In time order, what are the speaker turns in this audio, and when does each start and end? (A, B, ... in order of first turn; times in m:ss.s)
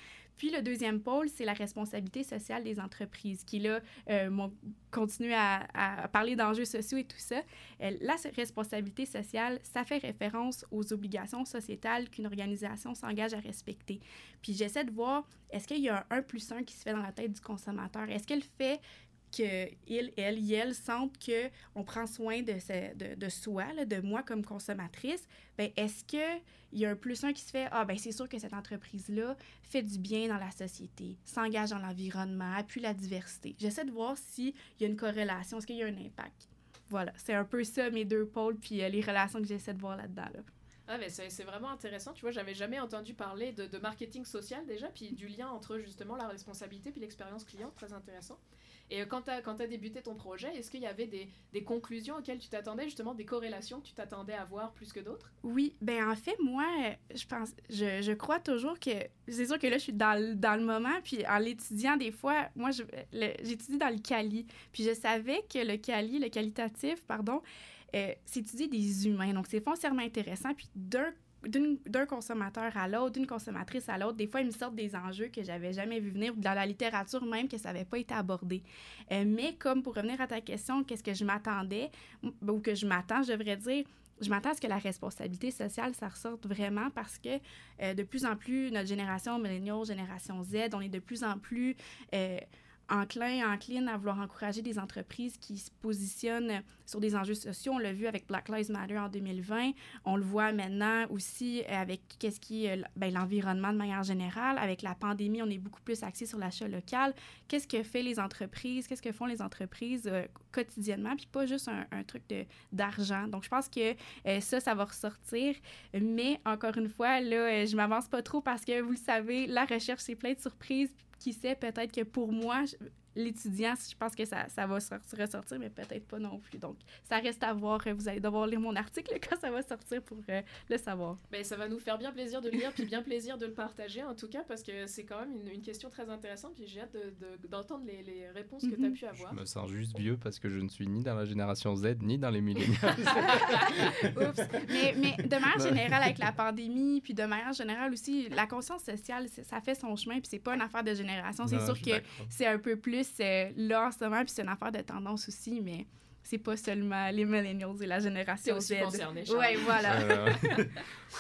0:00.4-0:40.4 A
0:40.9-0:55.3 B
0:55.4-2:11.2 A
2:11.3-2:19.4 B
2:18.6-2:19.0 A
2:19.2-2:26.1 C
2:23.2-2:40.7 A
2:31.4-2:32.3 C
2:38.4-2:40.8 B
2:39.8-2:40.9 C